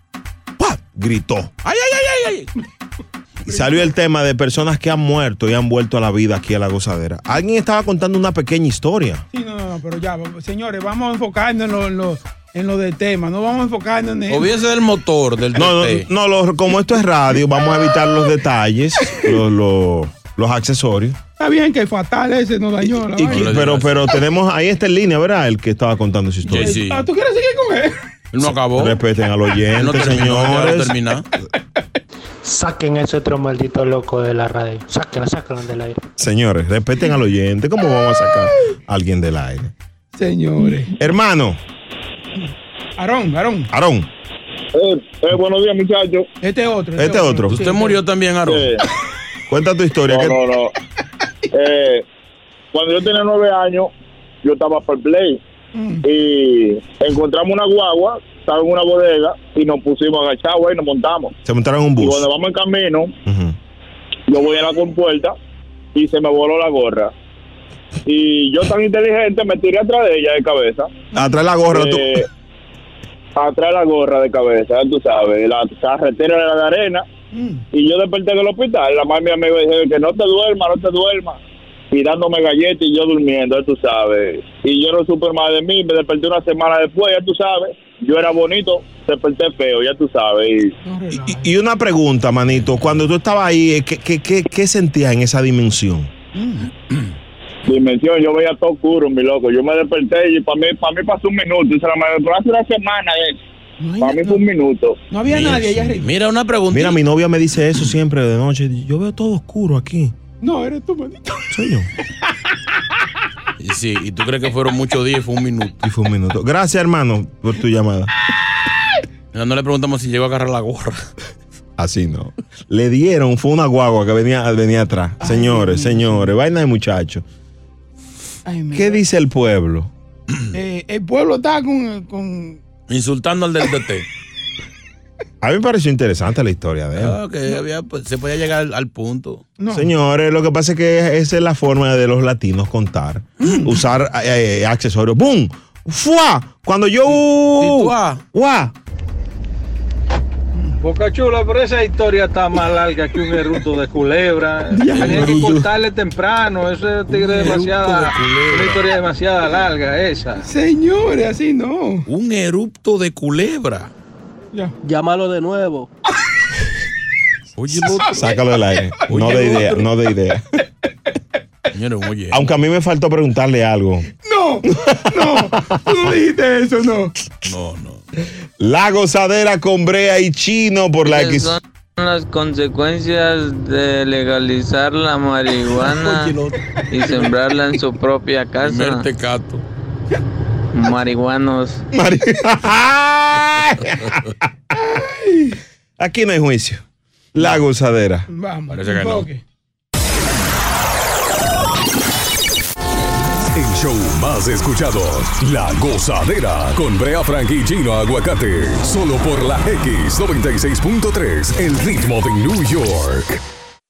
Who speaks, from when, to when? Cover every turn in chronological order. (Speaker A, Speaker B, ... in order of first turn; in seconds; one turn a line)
Speaker A: 0.6-1.5
Speaker B: 1.6-2.5
Speaker A: 3.5-9.2
Speaker C: 3.5-3.8
Speaker C: 9.3-14.5
Speaker B: 14.3-16.1
Speaker A: 15.5-21.2
Speaker C: 19.1-19.3
Speaker C: 21.4-23.6
Speaker A: 23.1-26.8
Speaker B: 23.3-24.1
Speaker B: 26.5-27.1
Speaker C: 26.5-28.0
Speaker B: 28.3-29.0
Speaker A: 28.7-31.0
Speaker B: 29.8-31.3
Speaker D: 32.5-36.0
Speaker A: 36.2-39.7
Speaker C: 40.1-41.0
Speaker A: 41.0-41.6
Speaker C: 43.0-43.7
Speaker A: 43.7-44.1
Speaker E: 44.7-46.3
Speaker C: 46.4-48.0
Speaker A: 47.0-47.6
Speaker B: 47.5-48.8
Speaker E: 48.5-48.8
Speaker A: 49.5-50.4
Speaker E: 50.1-50.7
Speaker E: 51.5-52.0
Speaker E: 52.7-53.9
Speaker E: 54.4-55.4
Speaker C: 55.8-56.0
Speaker E: 56.0-61.3
Speaker A: 61.4-62.3
Speaker E: 62.0-63.1
Speaker A: 63.3-63.6
Speaker E: 64.3-65.4
Speaker E: 65.9-67.1
Speaker E: 68.1-70.9
Speaker A: 71.1-72.2
Speaker E: 71.7-72.3
Speaker E: 73.4-77.0
Speaker C: 77.3-77.6
Speaker E: 77.7-81.4
Speaker E: 81.9-90.8
Speaker C: 90.8-91.5
Speaker A: 91.1-96.1
Speaker C: 96.3-96.7
Speaker E: 97.7-103.4
Speaker C: 103.8-104.4
Speaker E: 104.0-105.0
Speaker C: 105.1-106.1
Speaker B: 105.3-107.0
Speaker A: 105.3-106.0
Speaker A: 106.7-110.2
Speaker C: 110.4-111.5
Speaker A: 111.5-111.9
Speaker B: 113.6-115.8
Speaker A: 115.8-118.1
Speaker B: 119.3-121.1
Speaker A: 121.8-127.2
Speaker C: 125.2-126.3
Speaker C: 128.5-129.0
Speaker A: 128.7-129.9
Speaker C: 130.5-132.6
Speaker B: 132.9-134.1
Speaker A: 135.4-137.2
Speaker B: 137.0-139.5
Speaker C: 139.6-139.9
Speaker A: 139.7-148.7
Speaker C: 143.4-143.8
Speaker B: 147.1-148.2
Speaker F: 150.8-160.5
Speaker C: 154.7-155.6
Speaker B: 154.9-155.6
Speaker B: 157.1-158.9
Speaker C: 157.3-157.7
Speaker C: 160.4-162.1
Speaker B: 162.1-163.9
Speaker B: 167.6-168.3
Speaker A: 167.8-170.4
Speaker C: 168.0-168.4
Speaker C: 169.0-169.8
Speaker B: 169.1-169.8
Speaker B: 171.7-172.4
Speaker A: 172.3-174.1
Speaker C: 174.2-177.1
Speaker A: 174.6-176.1
Speaker B: 177.4-178.0
Speaker A: 178.6-181.6
Speaker G: 181.1-186.3
Speaker B: 185.7-187.3
Speaker G: 186.9-189.1
Speaker B: 188.6-189.6
Speaker G: 190.7-191.8
Speaker A: 191.9-194.2
Speaker A: 196.0-196.8
Speaker A: 197.3-198.3
Speaker C: 198.3-199.4
Speaker B: 198.7-199.3
Speaker H: 203.5-213.4